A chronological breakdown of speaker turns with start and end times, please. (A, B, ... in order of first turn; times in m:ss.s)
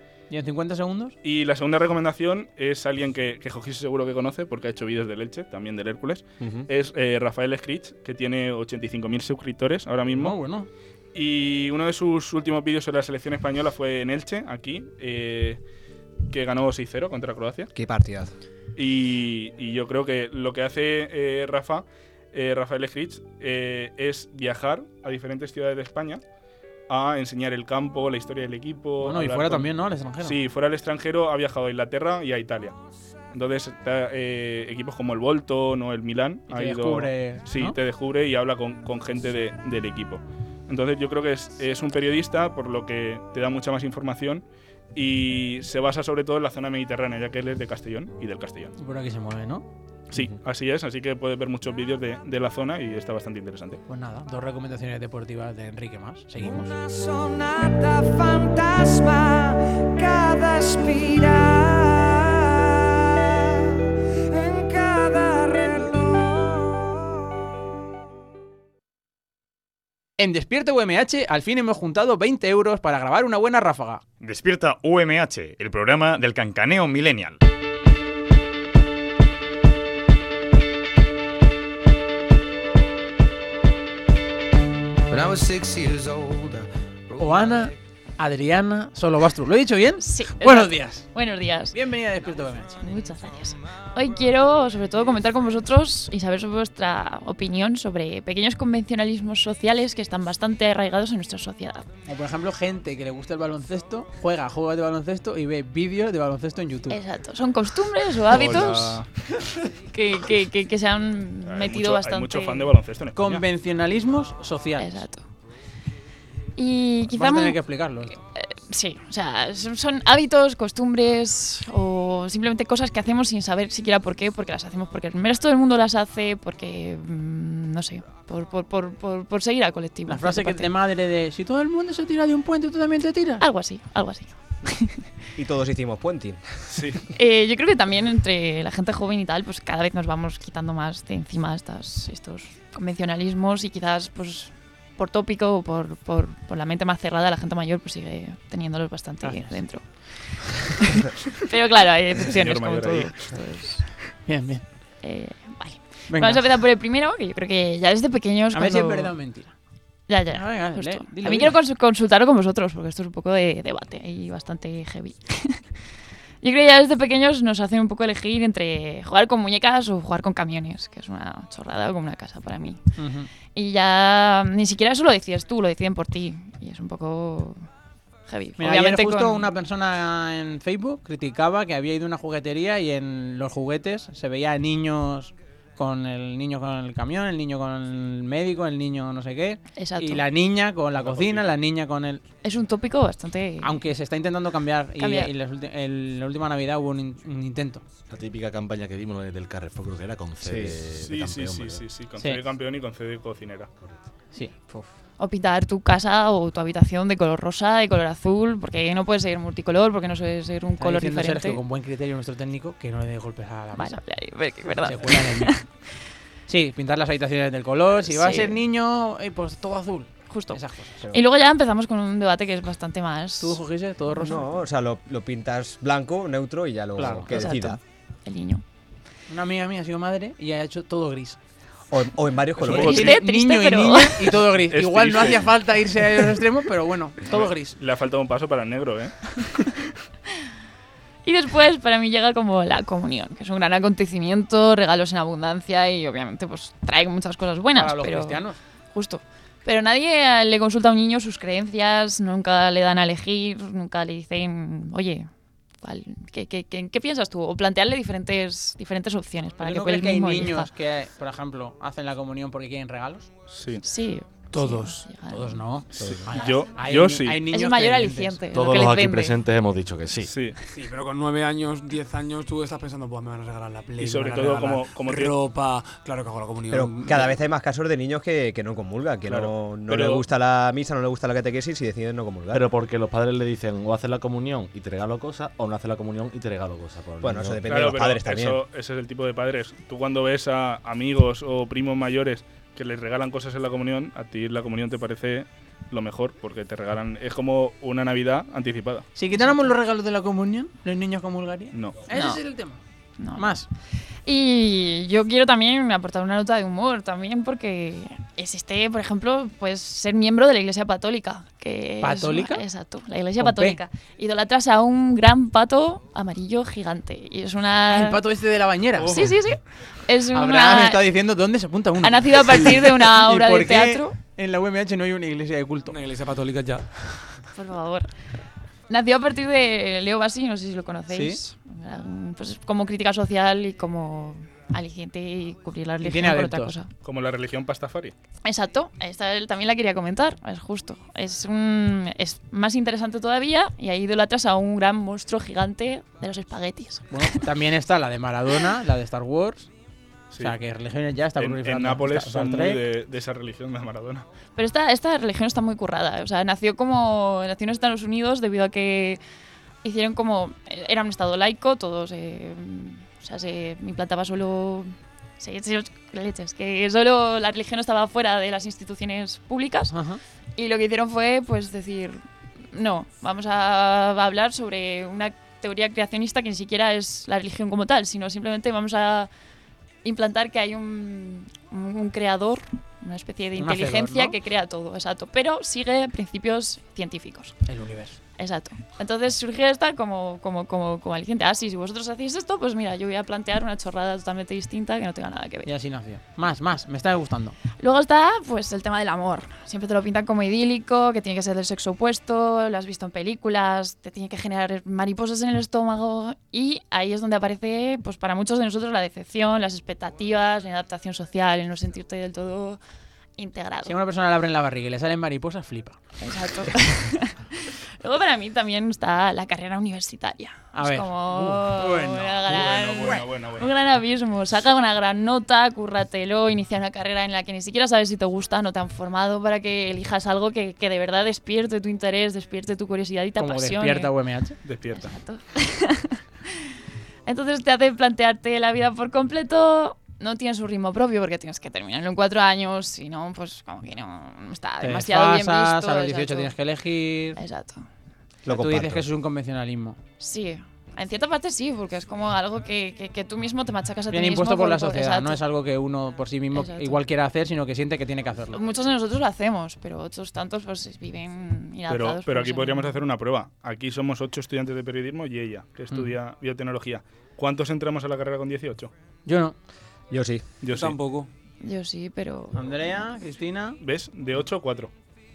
0:00.3-0:01.1 A
0:01.2-0:10.4 B
0:06.4-0:06.7 C
0:10.1-0:10.7 A
0:11.1-0:15.6 B
0:16.3-0:17.7 B
0:17.7-0:18.3 C
0:18.8-0:26.2 B
0:26.9-0:32.7 B
0:29.0-0:30.4 A
0:33.3-0:44.4 B
0:36.5-0:37.8 A
0:44.9-0:48.7 B
0:48.8-0:49.6 A
0:50.1-0:53.8 B
0:53.9-0:56.7 A
0:56.6-1:02.5 D
1:03.2-1:03.4 D
1:04.3-1:06.9 D
1:10.2-1:14.0 A
1:14.2-1:17.4 E
1:25.1-1:27.7 D
1:27.2-1:31.1 A
1:30.0-1:31.8 F
1:31.7-1:32.8 A
1:32.8-1:41.9 F
1:42.0-1:47.0 A
1:46.9-1:49.0 F
1:48.2-1:49.1 B
1:49.9-1:52.7 F
1:51.4-1:53.4 B
1:53.2-1:55.0 A
1:54.8-1:55.2 F
1:56.6-1:57.6 F
1:57.1-1:58.2 A
1:58.3-2:10.7 F
2:10.1-2:13.4 A
2:13.4-2:15.1 F
2:15.4-2:17.0 C
2:16.7-2:17.0 B
2:17.1-2:34.0 F
2:29.2-2:29.6 A
2:32.2-2:33.4 B
2:34.2-2:34.6 A
2:35.0-2:39.1 F
2:36.1-2:36.4 A
2:38.5-2:39.5 A
2:40.1-2:45.6 F
2:40.3-2:41.6 A
2:46.4-2:52.8 F
2:53.0-2:53.3 A
2:53.5-2:57.6 F
2:58.3-2:59.5 F
2:58.6-3:12.2 A
3:09.8-3:10.2 F
3:11.0-3:11.5 B
3:12.4-3:13.8 F
3:13.6-3:17.8 A
3:15.0-3:15.3 F
3:18.1-3:21.8 G
3:20.4-3:20.8 C
3:20.9-3:23.7 B
3:24.3-3:24.9 A
3:25.2-3:31.6 F
3:30.8-3:34.0 A
3:33.7-3:35.6 F
3:34.8-3:35.5 A
3:36.5-3:41.1 A
3:38.0-3:38.6 F
3:40.3-3:43.6 F
3:43.4-3:44.4 A
3:44.1-3:44.5 F
3:44.2-3:47.8 C
3:47.0-3:47.4 A
3:47.3-3:48.6 F
3:49.3-3:51.4 A
3:51.9-3:53.1 C
3:52.6-3:53.1 B
3:52.7-3:57.7 A
3:52.7-3:54.4 F
3:54.6-3:55.4 B
3:57.3-3:59.8 B
4:01.2-4:15.3 F
4:07.7-4:08.6 A
4:15.8-4:20.7 F
4:19.6-4:23.2 A
4:23.5-4:23.8 B
4:23.8-4:25.6 F
4:24.5-4:25.0 H
4:25.3-4:28.4 A
4:26.0-4:27.4 B
4:27.5-4:29.4 F
4:28.5-4:30.3 G
4:30.3-4:30.6 B
4:30.7-4:37.3 H
4:34.0-4:35.3 B
4:36.7-4:42.6 C
4:39.2-4:40.2 B
4:42.5-4:47.6 G
4:47.2-4:48.6 C
4:47.7-4:59.0 B
4:59.2-5:02.8 A
4:59.4-4:59.7 F
5:01.7-5:02.0 B
5:02.1-5:02.4 F
5:03.2-5:03.6 F
5:03.4-5:03.7 A
5:04.2-5:18.2 F
5:12.0-5:12.6 A
5:13.4-5:13.8 A
5:17.9-5:19.4 A
5:19.0-5:19.3 B
5:19.0-5:21.0 F
5:20.3-5:25.9 A
5:22.0-5:24.2 F
5:25.8-5:27.3 H
5:27.5-5:28.1 F
5:28.9-5:36.9 F
5:31.1-5:31.4 A
5:36.0-5:36.7 A
5:37.0-5:38.1 B
5:38.4-5:47.1 F
5:47.1-5:49.7 A
5:50.3-5:50.6 B
5:50.4-5:52.8 A
5:51.4-5:54.2 B
5:54.6-5:59.2 F
5:59.8-6:09.9 F
6:09.9-6:10.2 A
6:10.6-6:19.3 F
6:20.0-6:27.6 F
6:23.6-6:24.4 A
6:27.6-6:28.2 A
6:28.4-6:35.7 F
6:35.6-6:37.6 A
6:37.8-6:52.8 F
6:53.4-6:53.9 F
6:53.8-6:56.0 A
6:56.2-7:14.1 F
7:00.7-7:02.5 A
7:02.5-7:03.7 B
7:13.4-7:14.6 A
7:14.6-7:15.1 B
7:14.9-7:16.6 F
7:17.2-7:26.5 F
7:24.8-7:27.4 A
7:27.4-7:27.8 F
7:28.4-7:29.0 C
7:28.5-7:30.0 A
7:30.2-7:35.4 F
7:34.1-7:38.6 A
7:36.5-7:37.0 F
7:38.5-7:43.0 F
7:41.9-7:48.9 B
7:49.2-7:49.5 A
7:50.1-7:50.4 C
7:50.6-7:51.0 B
7:50.7-7:51.3 H
7:51.6-7:52.6 F
7:52.5-7:53.8 A
7:53.8-7:54.9 B